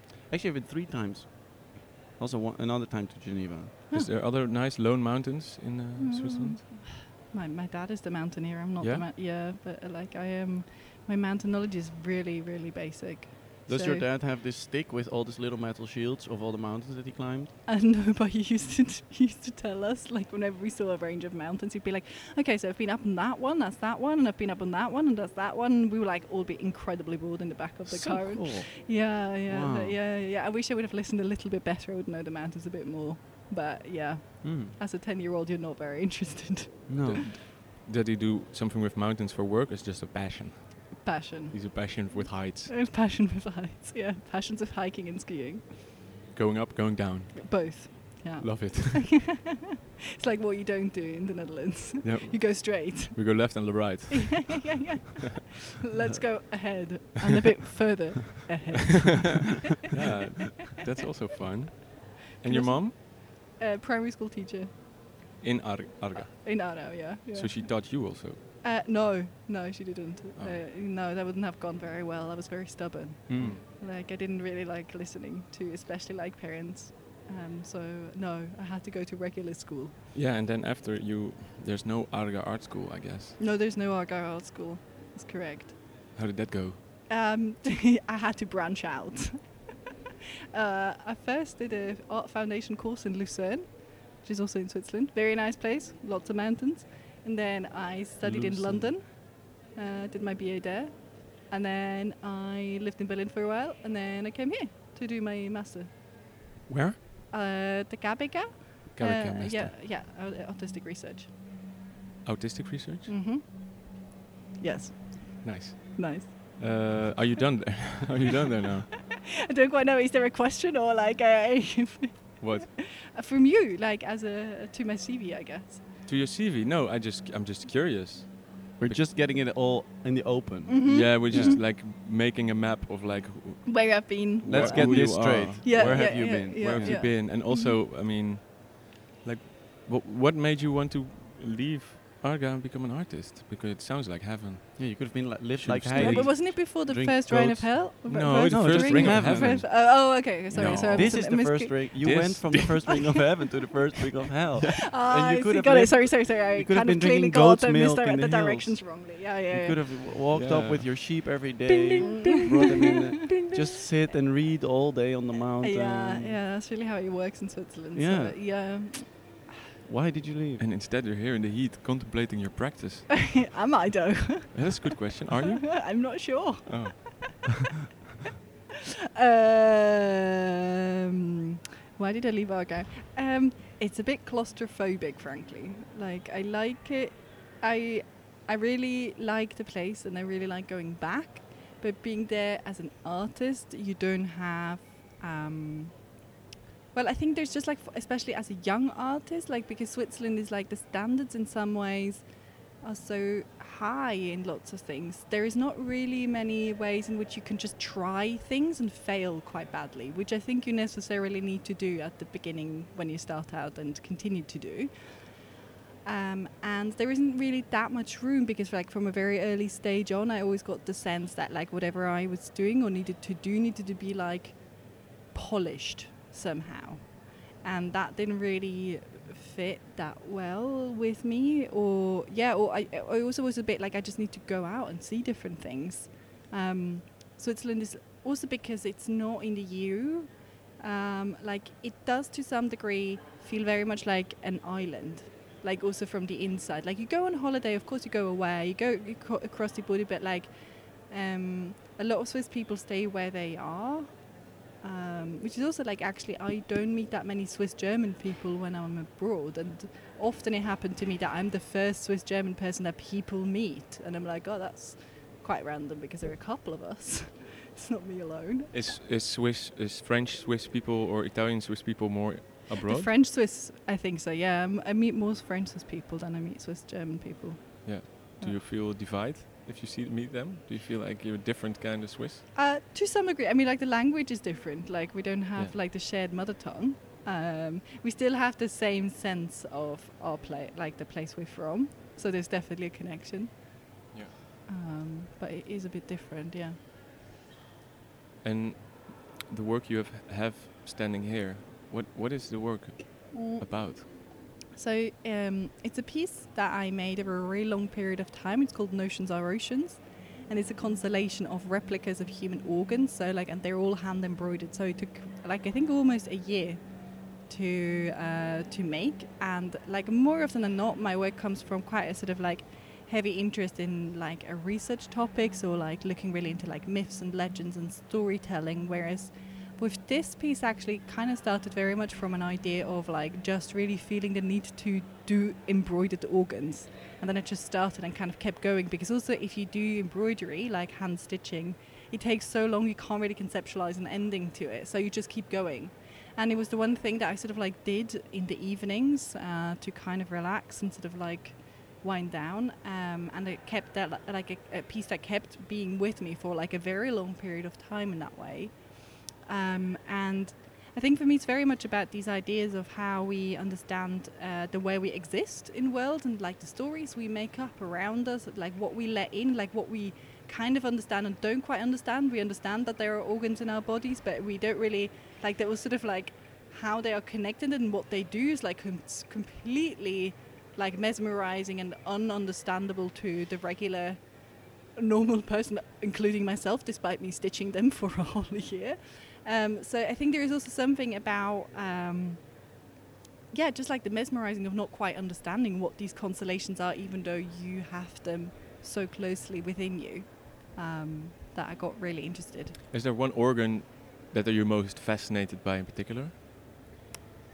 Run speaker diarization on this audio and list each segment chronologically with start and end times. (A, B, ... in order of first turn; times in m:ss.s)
0:00.3-0:03.7 A
0:03.9-0:06.6 B
0:06.0-0:14.0 C
0:08.8-0:09.1 B
0:13.7-0:17.5 A
0:17.7-0:37.3 C
0:27.8-0:30.0 A
0:34.4-0:34.8 A
0:36.9-0:37.2 A
0:37.0-0:42.7 B
0:41.0-0:45.7 C
0:46.3-0:47.8 B
0:47.4-0:49.6 C
0:48.4-0:49.2 B
0:50.2-0:59.5 C
0:52.0-0:54.9 B
0:59.9-1:03.0 B
1:02.4-1:04.7 C
1:05.4-1:08.4 B
1:06.2-1:19.9 C
1:10.4-1:10.6 B
1:13.3-1:13.6 A
1:20.1-1:23.4 B
1:23.4-1:25.8 C
1:26.1-1:26.8 B
1:27.1-1:29.7 C
1:30.5-1:45.9 C
1:38.2-1:38.9 B
1:46.7-1:47.0 B
1:47.3-1:51.3 C
1:49.0-1:49.7 B
1:52.2-1:53.1 B
1:53.1-1:54.1 C
1:54.6-1:56.6 C
1:55.4-1:58.9 B
1:59.1-2:05.8 C
2:02.4-2:02.7 B
2:06.0-2:09.0 B
2:08.8-2:11.6 A
2:10.7-2:11.6 C
2:10.8-2:26.6 B
2:13.6-2:17.8 C
2:14.4-2:17.0 A
2:24.8-2:46.4 A
2:25.9-2:32.2 C
2:28.0-2:31.4 B
2:32.0-2:32.9 B
2:32.9-2:33.1 C
2:34.8-2:40.0 C
2:40.3-2:41.0 B
2:41.7-2:43.5 C
2:45.6-2:49.5 C
2:47.9-2:48.4 A
2:49.8-2:50.6 A
2:50.6-2:53.4 B
2:53.3-2:57.2 C
2:54.5-2:55.9 B
2:56.6-2:57.6 B
2:59.1-3:00.3 C
3:02.0-3:16.1 C
3:16.9-3:35.4 C
3:36.0-4:28.9 C
4:28.7-4:33.1 B
4:32.8-4:38.6 C
4:37.8-4:42.4 B
4:42.5-4:53.6 C
4:54.7-4:56.8 C
4:58.4-5:04.1 B
5:03.3-5:04.1 C
5:04.7-6:32.6 C
6:33.5-6:42.8 C
6:42.9-6:46.3 B